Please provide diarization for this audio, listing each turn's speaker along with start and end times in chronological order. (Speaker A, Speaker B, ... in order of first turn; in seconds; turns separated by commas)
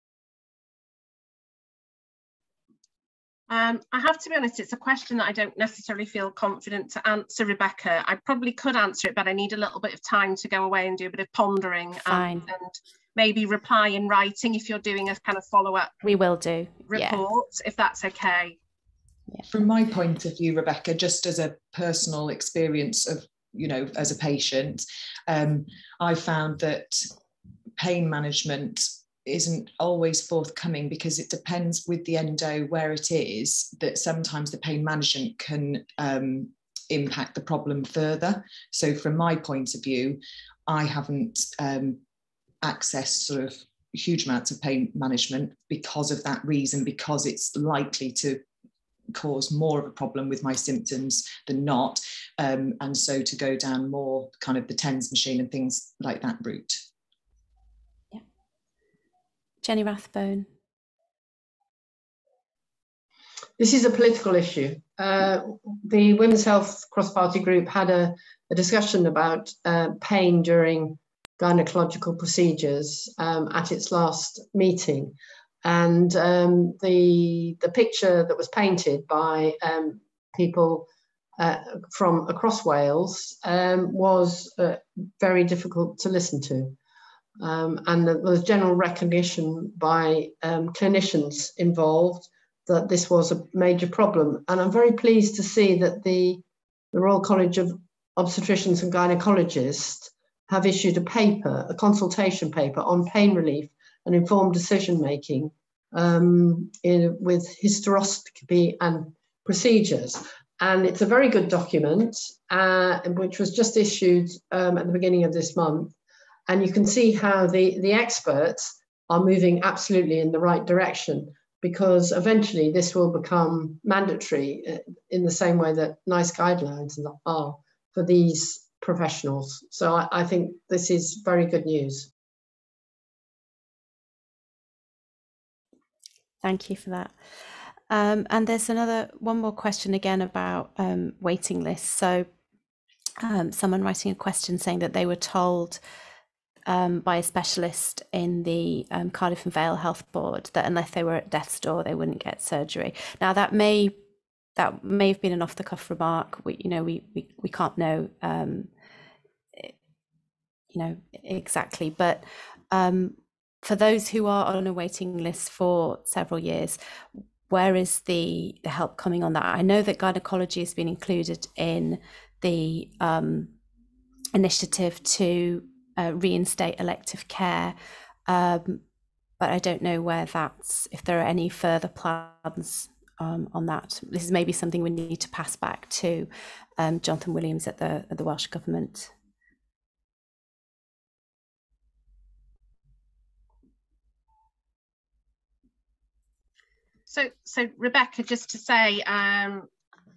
Speaker A: 3.5-16.0, Speaker B: 12.1-12.5, Speaker B: 16.0-17.2, Speaker A: 16.9-18.6, Speaker C: 19.5-27.1, Speaker C: 27.8-42.0, Speaker C: 42.6-48.4, Speaker C: 49.1-56.8, Speaker B: 59.6-60.5, Speaker D: 63.6-86.8, Speaker D: 87.4-115.9, Speaker D: 116.5-132.1, Speaker B: 136.4-137.1, Speaker B: 137.9-142.3, Speaker B: 143.2-145.8, Speaker B: 146.7-153.9, Speaker B: 154.6-158.7, Speaker B: 160.7-173.5, Speaker B: 174.3-177.7, Speaker B: 178.3-178.8, Speaker B: 179.4-189.1, Speaker A: 197.1-199.7